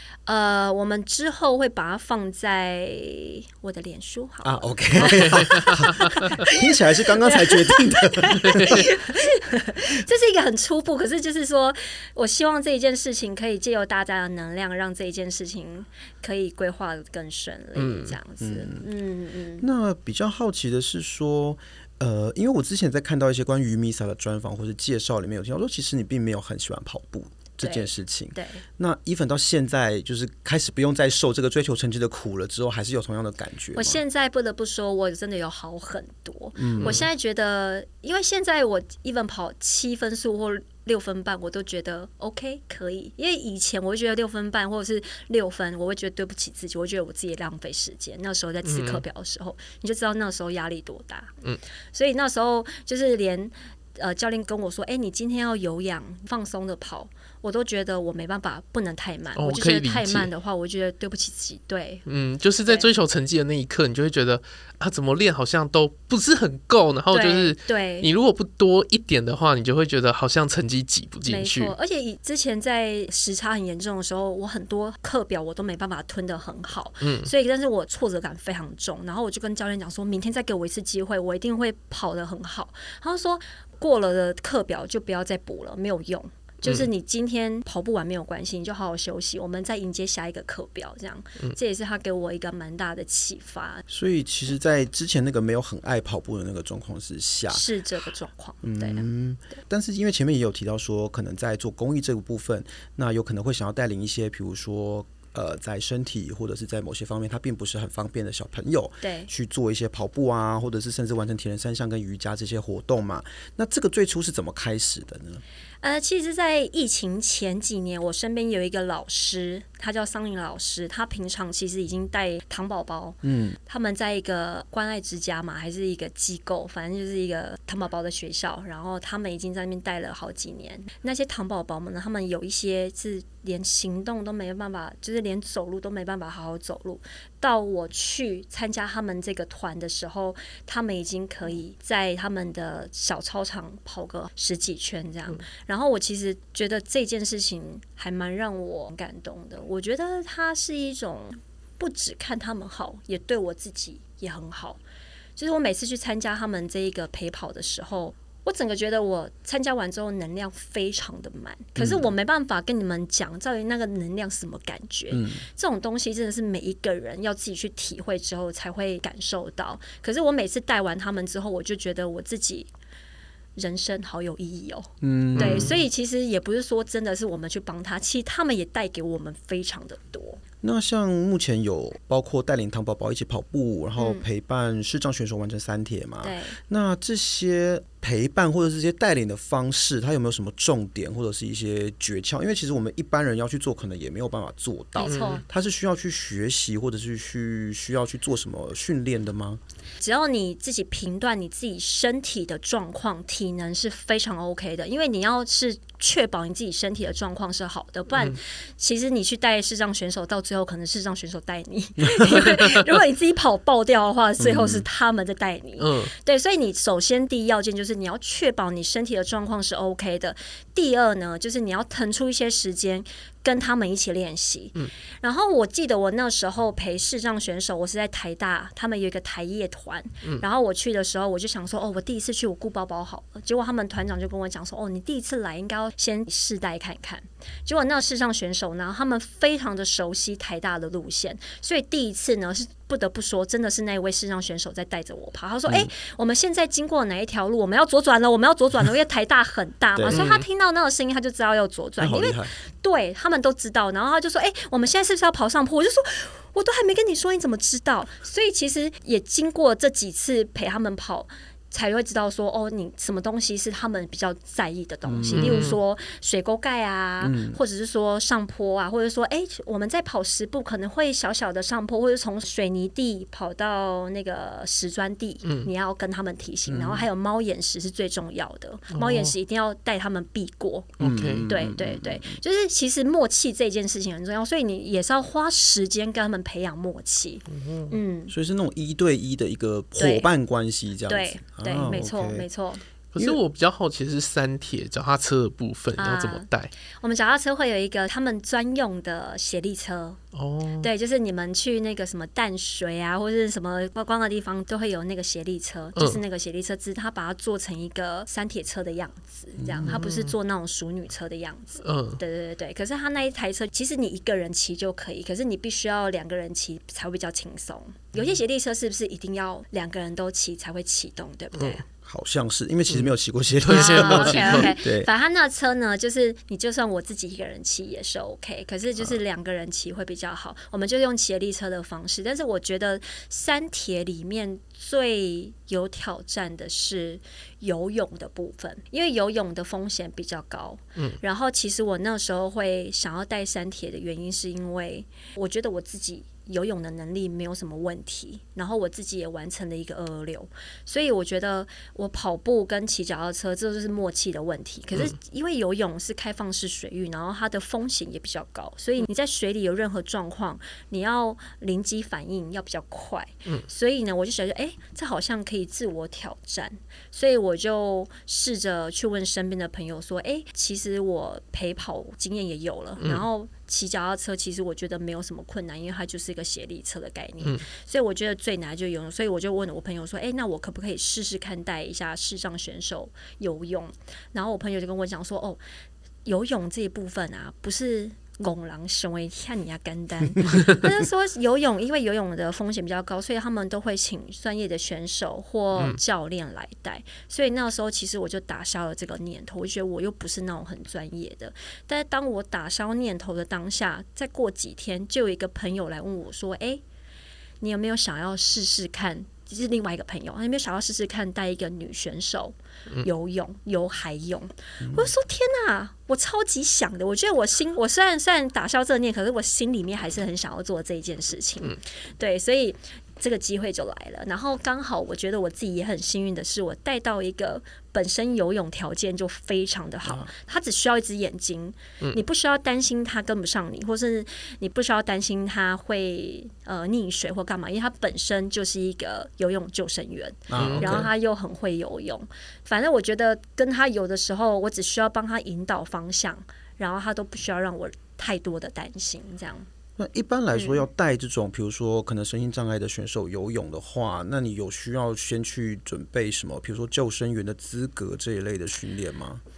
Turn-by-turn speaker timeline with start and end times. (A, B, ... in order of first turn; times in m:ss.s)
0:00.3-0:06.6 A
0:04.4-0:08.9 B
0:05.0-0:06.1 C
0:07.2-0:19.6 A
0:17.8-0:18.2 C
0:18.4-0:18.9 B
0:19.6-0:34.0 B
0:27.6-0:28.6 A
0:33.8-0:51.3 A
0:36.6-0:37.0 B
0:36.8-0:37.0 C
0:48.6-0:49.0 C
0:51.9-1:02.0 A
0:59.4-1:00.3 C
1:02.1-1:11.7 C
1:07.1-1:08.1 A
1:11.3-1:33.8 A
1:17.0-1:17.3 C
1:33.9-1:37.7 B
1:37.5-1:39.6 A
1:38.6-1:55.4 B
1:49.0-1:49.3 A
1:55.8-2:34.8 A
2:03.2-2:03.6 B
2:35.4-2:52.7 A
2:41.8-2:42.1 B
2:45.1-2:45.4 B
2:53.6-3:00.4 A
2:55.0-2:55.7 B
2:55.4-2:55.8 C
3:00.6-3:19.6 B
3:04.0-3:04.2 A
3:06.2-3:06.6 A
3:15.0-3:15.4 A
3:15.0-3:15.4 C
3:20.0-4:48.3 A
3:32.1-3:32.4 B
3:34.4-3:34.8 B
3:35.8-3:36.1 C
4:10.0-4:10.2 B
4:10.1-4:10.4 C
4:12.0-4:12.5 B
4:25.1-4:25.6 B
4:25.3-4:25.8 C
4:27.2-4:27.6 B
4:36.7-4:37.0 B
4:38.9-4:39.3 C
4:41.0-4:41.5 C
4:41.0-4:42.4 B
4:47.5-4:47.9 C
4:48.3-4:52.5 B
4:50.0-4:50.3 A
4:51.1-4:52.8 A
4:53.1-4:56.7 C
4:56.0-5:00.2 A
5:00.3-5:00.9 C
5:00.8-5:21.8 A
5:06.0-5:06.2 C
5:09.6-5:10.0 B
5:09.9-5:10.4 C
5:11.8-5:12.2 C
5:22.0-5:25.1 B
5:23.6-5:24.7 C
5:23.7-6:25.6 A
6:13.0-6:13.2 C
6:26.2-6:46.8 A
6:47.6-7:29.7 A
6:54.8-6:55.1 B
7:10.0-7:10.3 B
7:20.5-7:21.1 B
7:20.6-7:21.1 C
7:30.0-7:39.4 B
7:30.5-7:30.8 A